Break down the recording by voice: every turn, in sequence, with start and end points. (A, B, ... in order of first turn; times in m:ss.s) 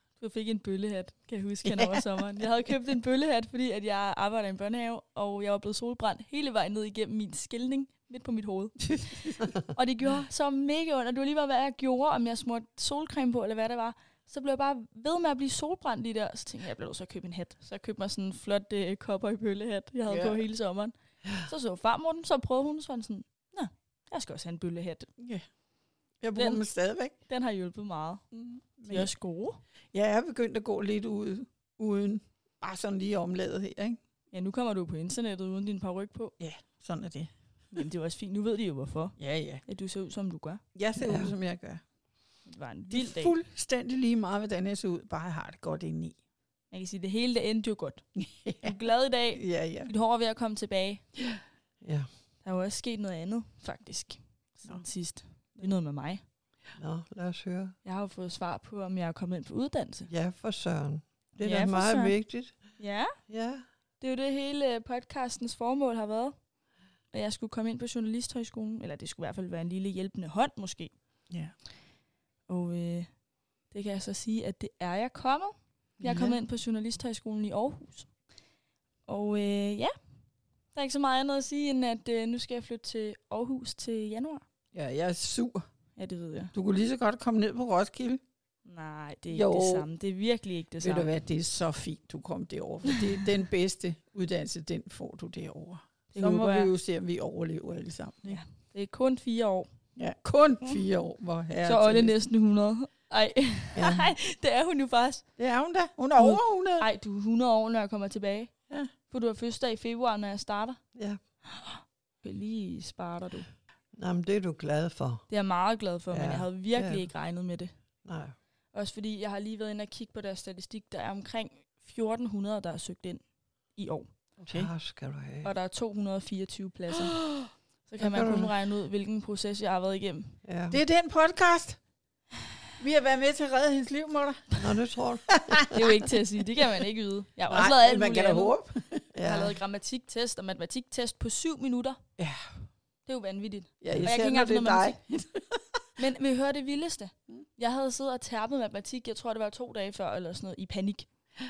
0:00.2-0:25.1 A
0:01.6-0:02.0 B
0:08.8-0:09.4 B
0:20.1-0:20.4 B
0:25.2-0:25.4 B
0:26.2-0:27.1 B
0:26.4-0:26.6 A
0:27.3-0:28.2 A
0:28.3-0:29.1 B
0:28.9-0:29.6 A
0:29.9-0:34.0 B
0:34.3-0:36.3 A
0:36.4-0:37.3 B
0:37.7-0:40.6 A
0:39.2-0:39.6 B
0:40.7-0:41.8 B
0:41.0-0:41.3 C
0:42.4-0:43.4 A
0:42.9-0:46.2 B
0:46.7-0:48.0 A
0:48.2-0:48.7 B
0:48.6-0:51.1 A
0:49.3-0:49.9 B
0:51.8-0:52.1 C
0:52.4-0:56.2 A
0:56.8-0:57.7 C
0:57.8-1:00.1 A
1:00.1-1:03.6 C
1:01.4-1:02.2 A
1:02.8-1:03.2 A
1:04.0-1:06.4 A
1:07.1-1:10.9 A
1:12.5-1:18.1 A
1:16.0-1:16.4 B
1:19.0-1:19.9 A
1:20.7-1:24.4 A
1:24.7-1:25.6 B
1:26.0-1:26.5 A
1:26.5-1:28.2 B
1:28.6-1:31.1 A
1:29.3-1:29.9 B
1:30.8-1:38.4 B
1:36.1-1:36.7 A
1:38.2-1:39.7 A
1:40.0-1:42.1 B
1:41.6-1:45.2 A
1:45.4-1:46.9 B
1:46.2-1:48.5 A
1:49.1-1:50.8 A
1:51.5-1:53.5 A
1:53.9-1:55.3 C
1:55.3-1:57.7 A
1:56.1-1:57.1 C
1:58.0-1:58.3 C
1:58.7-2:04.2 A
2:04.4-2:04.7 B
2:04.5-2:05.5 C
2:05.4-2:10.4 A
2:08.0-2:08.5 C
2:10.4-2:10.8 C
2:10.7-2:11.8 B
2:12.8-2:14.6 B
2:14.6-2:15.8 C
2:15.3-2:15.7 B
2:15.7-2:18.5 A
2:17.5-2:19.0 B
2:19.1-2:19.5 C
2:19.2-2:22.0 A
2:22.2-2:22.4 B
2:23.0-2:25.0 A
2:23.8-2:25.6 B
2:26.0-2:31.1 A